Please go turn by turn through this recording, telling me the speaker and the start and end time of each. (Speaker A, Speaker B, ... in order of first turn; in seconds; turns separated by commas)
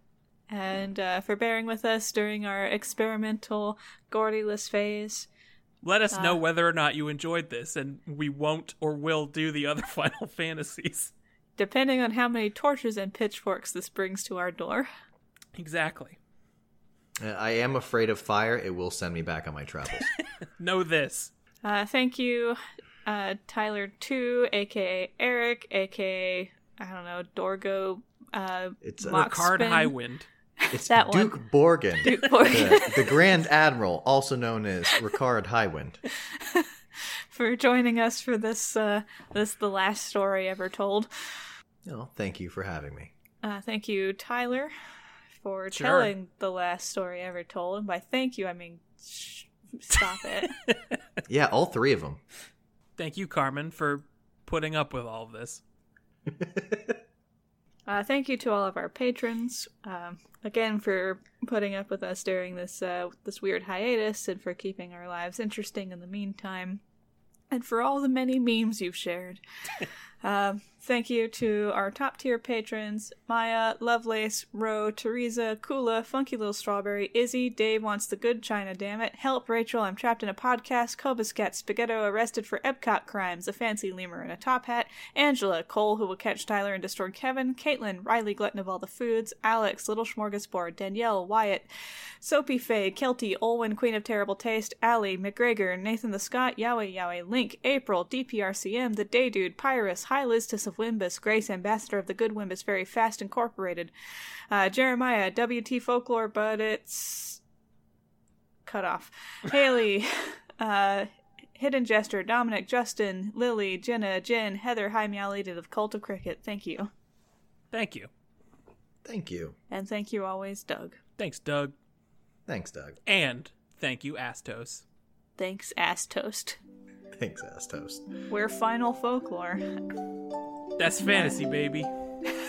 Speaker A: 0.5-5.3, Speaker B: 5.8-11.1, Speaker A: 6.1-6.4, Speaker A: 11.6-14.9, Speaker B: 15.5-16.2, Speaker C: 17.2-20.1, Speaker B: 20.1-21.3, Speaker A: 21.6-29.9, Speaker C: 28.8-29.3, Speaker B: 29.1-30.3, Speaker A: 30.6-31.4, Speaker C: 30.7-36.0, Speaker A: 32.0-33.2, Speaker A: 36.2-36.7, Speaker A: 37.3-41.1, Speaker C: 41.8-43.1, Speaker A: 43.4-44.7, Speaker A: 45.4-50.5, Speaker B: 45.7-46.1, Speaker C: 51.3-52.2, Speaker B: 53.0-55.6, Speaker C: 56.3-57.0, Speaker A: 57.9-66.8, Speaker A: 67.5-69.4, Speaker A: 70.2-91.7, Speaker A: 92.2-103.9, Speaker A: 104.5-107.4, Speaker A: 108.7-116.9, Speaker B: 117.7-118.1, Speaker C: 119.0-119.5, Speaker A: 119.7-121.0, Speaker B: 121.2-121.7, Speaker C: 122.5-123.0, Speaker B: 123.0-124.8, Speaker A: 125.4-126.6, Speaker C: 127.1-128.1, Speaker A: 128.3-129.8, Speaker B: 130.8-131.9, Speaker A: 131.1-131.3